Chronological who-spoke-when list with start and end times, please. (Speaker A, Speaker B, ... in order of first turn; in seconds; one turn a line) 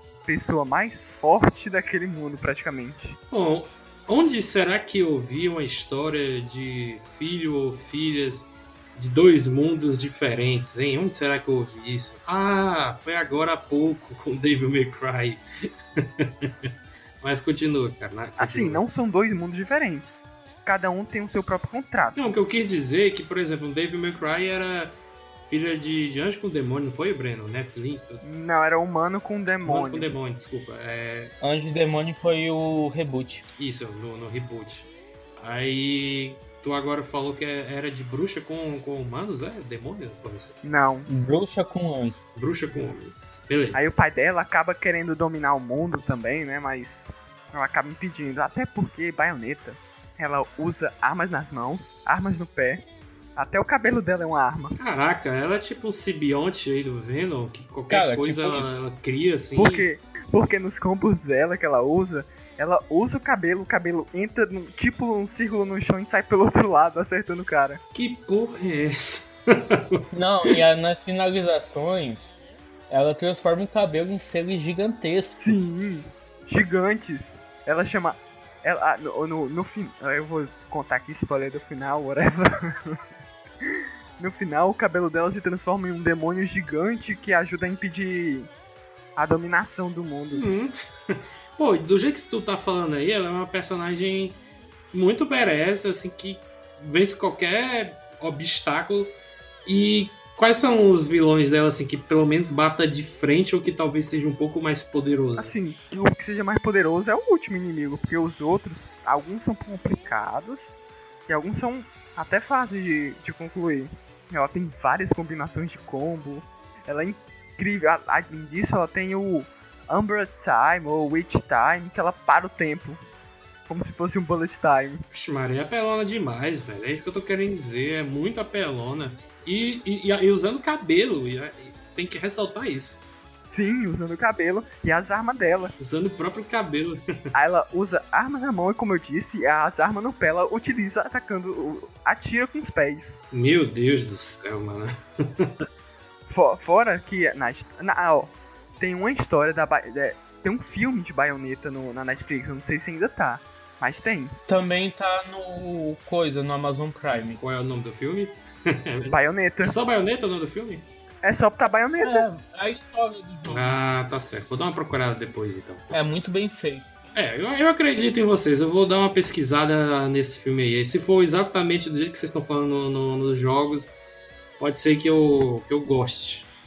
Speaker A: 0.3-3.2
Speaker B: 3.3-15.4
Speaker B: 16.0-16.5
Speaker B: 17.2-18.8
Speaker A: 18.4-22.2
Speaker B: 22.1-24.9
Speaker B: 25.5-28.2
Speaker A: 28.2-30.1
Speaker B: 29.6-31.3
Speaker C: 31.4-33.5
Speaker B: 33.6-40.6
Speaker A: 40.6-41.1
Speaker C: 41.1-42.2
Speaker B: 42.4-43.9
Speaker A: 43.7-52.8
Speaker A: 53.4-54.8
Speaker B: 54.8-59.9
Speaker C: 57.9-58.8
Speaker A: 59.6-67.8
Speaker B: 67.9-70.0
Speaker C: 70.1-72.4
Speaker C: 72.9-75.7
Speaker A: 75.4-83.0
Speaker A: 83.6-88.5
Speaker A: 89.2-90.5
Speaker B: 90.3-94.4
Speaker B: 94.9-99.1
Speaker B: 99.7-105.5
Speaker A: 105.4-110.7
Speaker A: 111.3-123.0
Speaker A: 123.7-125.0
Speaker B: 125.1-133.0
Speaker A: 133.5-135.7
Speaker B: 135.8-137.3
Speaker A: 137.3-143.2
Speaker B: 143.3-145.5
Speaker A: 146.3-154.4
Speaker C: 154.5-157.4
Speaker B: 157.4-160.9
Speaker A: 159.1-159.7
Speaker A: 161.2-162.3
Speaker C: 162.0-163.8
Speaker B: 163.4-165.9
Speaker C: 165.9-166.9
Speaker B: 167.2-173.9
Speaker B: 174.6-176.5